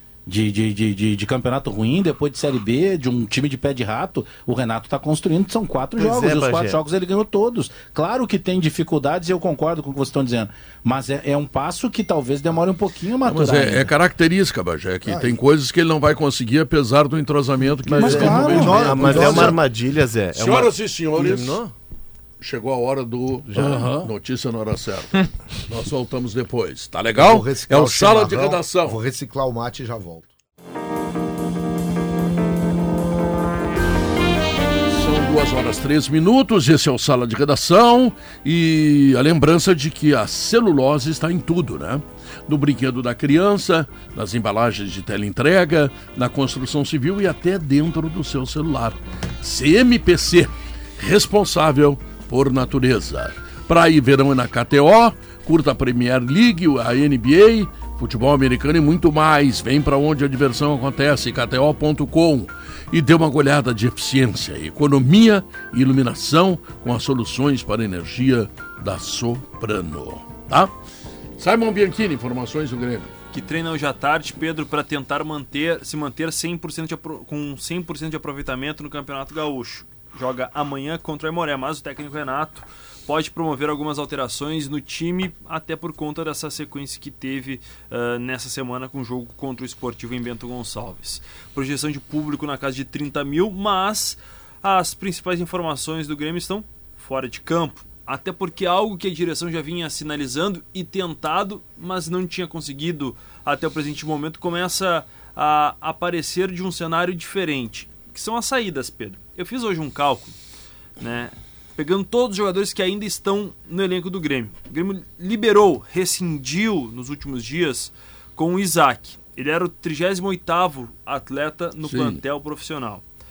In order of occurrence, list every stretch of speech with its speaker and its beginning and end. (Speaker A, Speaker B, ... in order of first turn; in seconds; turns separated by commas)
Speaker A: 0.3-13.9, Speaker B: 6.0-6.8, Speaker C: 13.2-19.6, Speaker D: 15.1-15.4, Speaker B: 17.9-21.7, Speaker A: 18.0-19.5, Speaker D: 18.1-19.6, Speaker C: 20.3-21.6, Speaker C: 22.4-29.0, Speaker B: 23.5-24.0, Speaker D: 27.2-30.3, Speaker C: 34.9-70.7, Speaker C: 71.4-73.1, Speaker E: 73.3-110.3, Speaker E: 111.0-123.0, Speaker C: 121.8-122.2